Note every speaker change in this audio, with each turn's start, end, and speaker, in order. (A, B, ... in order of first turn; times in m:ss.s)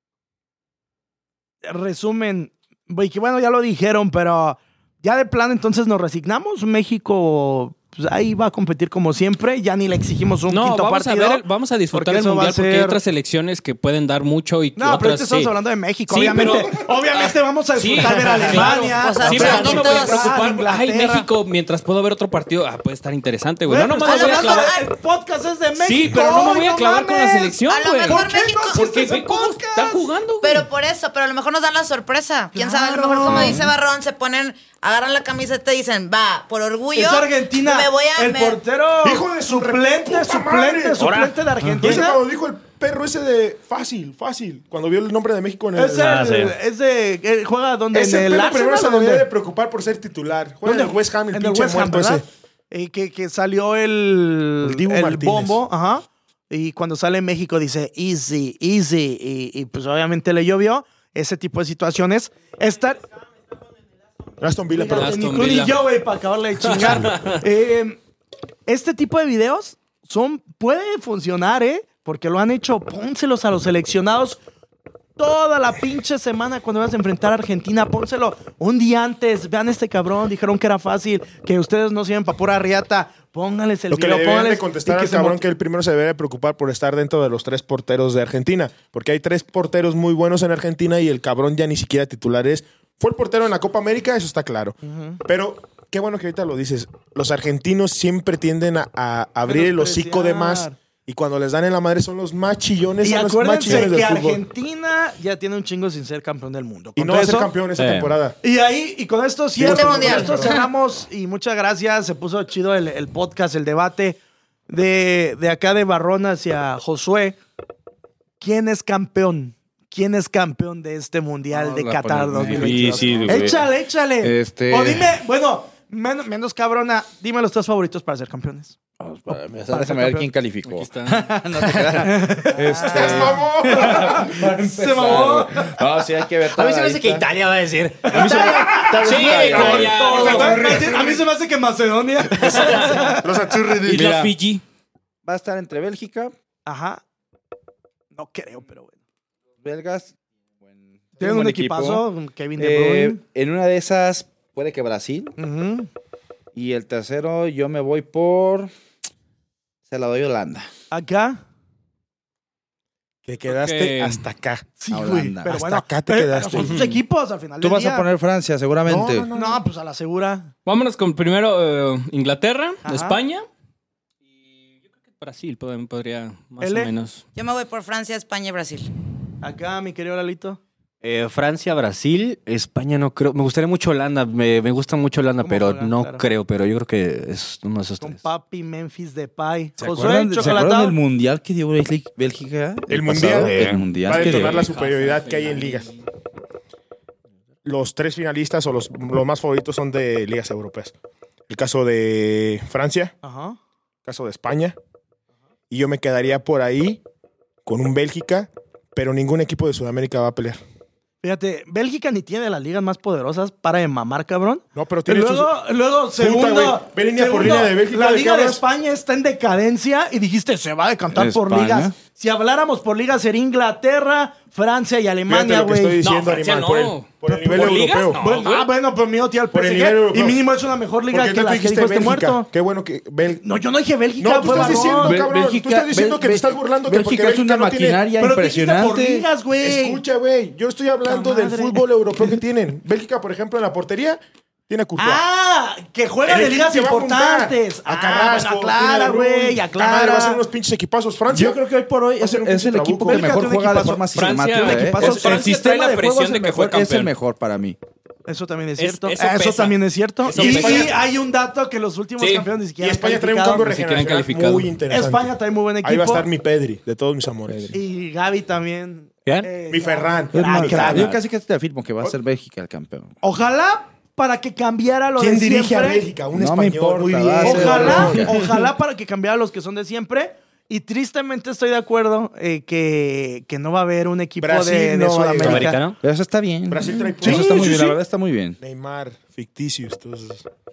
0:01.6-0:13.0 A
0:10.5-0:15.5 B
0:14.8-0:21.3 A
0:16.1-0:24.6 B
0:18.8-0:20.3 C
0:19.4-0:19.7 D
0:23.6-0:30.1 A
0:24.0-0:24.9 C
0:25.8-0:30.7 B
0:27.7-0:28.8 C
0:30.4-0:38.6 C
0:32.5-0:33.6 A
0:33.2-0:33.7 E
0:36.9-0:42.2 A
0:39.0-0:41.1 D
0:41.0-0:41.3 F
0:41.8-0:46.0 D
0:45.7-0:49.3 A
0:46.0-0:46.5 F
0:47.9-0:52.2 D
0:50.6-1:03.0 A
0:54.6-0:55.6 D
1:04.4-1:05.1 D
1:04.7-1:08.0 A
1:05.0-1:05.8 B
1:06.6-1:07.4 B
1:08.7-1:14.4 A
1:15.2-1:25.4 A
1:23.9-1:44.4 D
1:34.8-1:35.2 A
1:39.5-1:40.8 A
1:43.0-1:47.5 A
1:47.0-1:48.4 D
1:47.8-1:48.1 F
1:48.4-1:54.2 A
1:49.6-1:50.6 D
1:49.6-1:50.6 C
1:54.7-1:57.4 A
1:58.4-2:08.8 A
2:01.5-2:03.7 E
2:04.2-2:05.2 E
2:09.0-2:17.2 E
2:09.3-2:10.3 A
2:10.6-2:11.7 B
2:11.9-2:15.8 A
2:12.8-2:14.2 D
2:16.4-2:18.6 F
2:18.0-2:19.0 A
2:18.1-2:20.8 E
2:18.1-2:21.2 D
2:19.0-2:20.7 B
2:19.5-2:23.3 A
2:22.4-2:23.0 B
2:22.7-2:24.2 D
2:23.8-2:24.3 E
2:23.8-2:24.6 B
2:25.2-2:26.3 E
2:26.6-2:27.0 A
2:28.1-2:29.0 A
2:29.6-2:32.0 E
2:31.2-2:33.2 A
2:32.6-2:35.3 E
2:35.4-2:35.9 A
2:36.5-2:38.7 E
2:39.9-2:40.7 E
2:40.9-2:41.4 A
2:43.2-2:44.7 D
2:43.5-2:44.2 B
2:44.8-2:48.1 A
2:44.9-2:45.5 E
2:45.5-2:46.8 D
2:47.6-2:49.3 E
2:48.8-2:49.6 D
2:49.3-2:50.5 A
2:50.6-2:53.4 B
2:52.8-2:53.2 A
2:55.0-2:57.2 B
2:56.6-2:56.9 A
2:57.4-2:58.9 C
2:59.4-3:00.6 A
3:01.0-3:08.2 F
3:05.4-3:06.2 A
3:08.0-3:11.0 A
3:09.8-3:14.6 E
3:12.9-3:15.9 D
3:13.2-3:13.9 F
3:14.1-3:16.0 B
3:17.6-3:20.9 D
3:21.5-3:23.2 D
3:23.2-3:23.6 A
3:24.0-3:24.8 D
3:25.7-3:27.0 D
3:27.6-3:30.6 D
3:31.2-3:46.0 A
3:34.7-3:35.6 D
3:36.2-3:38.6 D
3:41.1-3:41.9 E
3:45.3-3:48.2 D
3:46.0-3:48.7 B
3:47.3-3:52.5 A
3:49.5-3:50.4 D
3:51.1-3:53.4 D
3:53.4-3:55.2 A
3:54.2-3:58.0 D
3:54.5-3:59.3 E
3:58.2-4:00.0 A
3:59.6-4:05.2 D
4:01.0-4:01.8 A
4:05.0-4:10.4 A
4:06.3-4:11.6 D
4:11.3-4:17.8 E
4:12.2-4:13.2 D
4:13.0-4:15.6 A
4:14.1-4:17.1 B
4:18.3-4:23.7 A
4:18.8-4:20.9 B
4:20.3-4:21.0 D
4:22.2-4:22.5 B
4:22.8-4:25.3 D
4:23.6-4:24.7 B
4:24.9-4:26.3 A
4:25.8-4:27.8 D
4:27.5-4:27.7 E
4:27.7-4:31.1 A
4:29.7-4:31.2 D
4:30.3-4:33.1 E
4:33.2-4:36.0 A
4:35.2-4:38.5 D
4:36.3-4:38.3 E
4:37.4-4:45.8 A
4:44.4-4:45.8 D
4:45.4-4:46.0 F
4:46.0-4:48.6 E
4:46.7-4:48.0 D
4:47.2-4:47.8 A
4:48.6-4:50.4 D